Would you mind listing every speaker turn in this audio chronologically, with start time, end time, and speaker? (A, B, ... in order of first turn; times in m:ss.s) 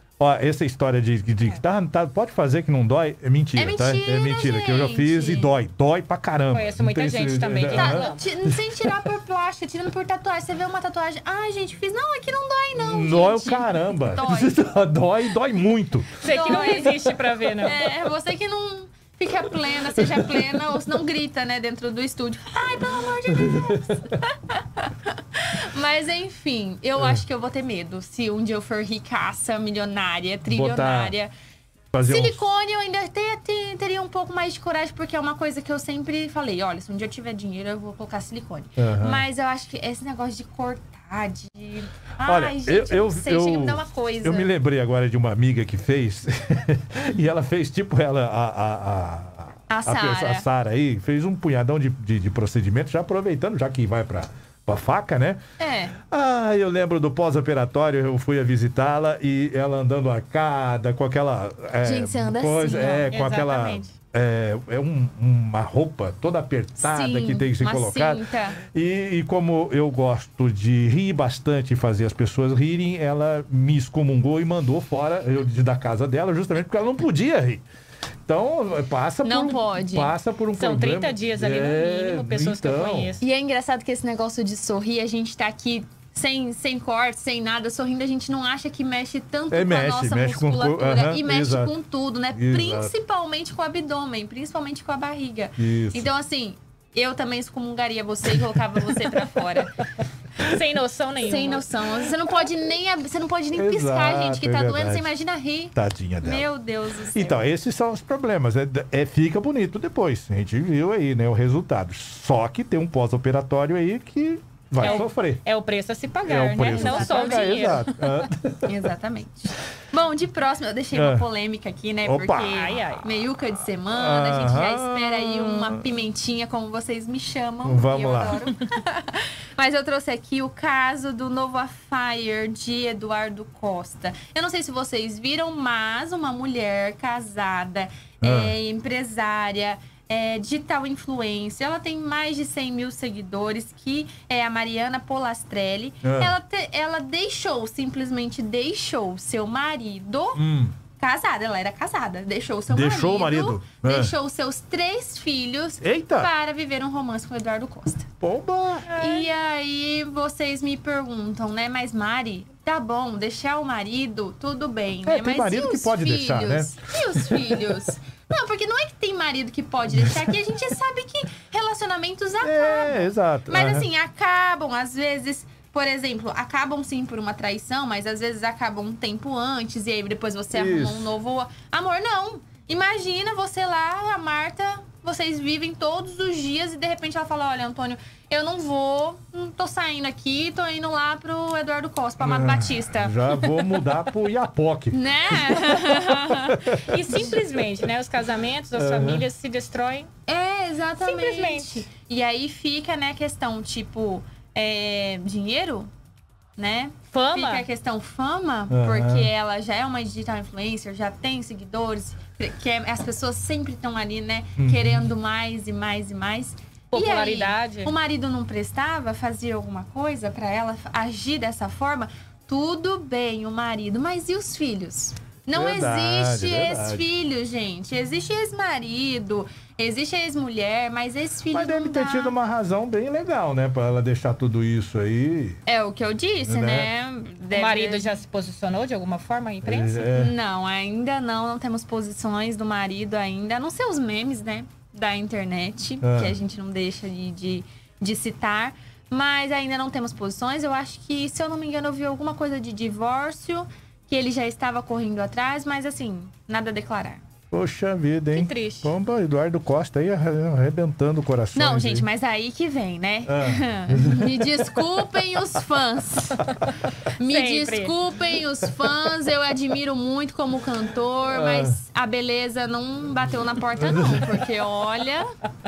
0:00.2-0:09.0 A
0:03.6-0:05.6 B
0:06.5-0:08.2 C
0:07.7-0:14.7 B
0:12.7-0:16.2 A
0:16.2-0:17.8 C
0:16.2-0:31.3 B
0:19.9-0:20.7 A
0:23.3-0:24.0 A
0:27.0-0:27.2 A
0:30.5-0:31.1 A
0:31.9-0:32.5 A
0:32.0-0:44.5 B
0:38.8-0:39.2 A
0:42.2-0:55.4 A
0:49.7-0:50.5 B
0:55.6-0:56.0 B
0:56.0-1:17.6 A
1:01.8-1:03.1 B
1:03.1-1:03.9 C
1:06.8-1:08.6 B
1:18.3-1:23.2 A
1:19.2-1:20.2 B
1:20.6-1:23.2 C
1:23.2-1:39.8 B
1:29.5-1:31.7 A
1:32.3-1:32.9 A
1:35.6-1:36.1 A
1:40.4-1:41.7 C
1:41.2-1:47.4 B
1:43.5-1:45.1 A
1:45.7-1:46.5 A
1:47.1-1:55.4 A
1:54.8-1:58.2 C
1:56.2-1:58.8 A
1:56.6-1:57.8 B
1:58.6-2:30.4 B
2:00.9-2:01.2 A
2:02.0-2:02.6 A
2:02.4-2:03.1 C
2:03.9-2:05.9 A
2:07.6-2:08.4 A
2:18.2-2:18.6 A
2:26.0-2:26.4 A
2:30.4-2:30.8 A
2:31.0-2:38.1 B
2:32.7-2:34.1 A
2:35.8-2:36.3 A
2:38.2-2:38.9 A
2:38.9-2:39.3 C
2:38.9-3:13.9 B
2:45.0-2:47.8 A
2:49.9-2:50.2 A
2:52.4-2:53.9 A
3:00.5-3:01.2 A
3:12.2-3:17.2 A
3:14.9-3:17.2 B
3:16.8-3:20.1 C
3:18.8-3:19.3 A
3:20.3-3:25.9 B
3:21.0-3:21.9 C
3:26.6-3:52.4 B
3:27.1-3:27.7 C
3:28.7-3:29.3 A
3:34.6-3:35.0 A
3:36.9-3:38.0 C
3:45.5-3:47.1 A
3:51.5-3:55.6 A
3:55.7-3:58.1 B
3:56.4-3:56.9 A
3:57.5-4:00.2 C
3:59.6-4:00.3 A
4:00.1-4:17.2 B
4:06.0-4:06.4 A
4:17.5-4:22.1 A
4:18.3-4:19.0 C
4:21.5-4:26.5 B
4:23.3-4:24.6 A
4:27.2-4:35.3 B
4:27.2-4:27.9 C
4:31.3-4:31.8 A
4:33.8-4:34.4 A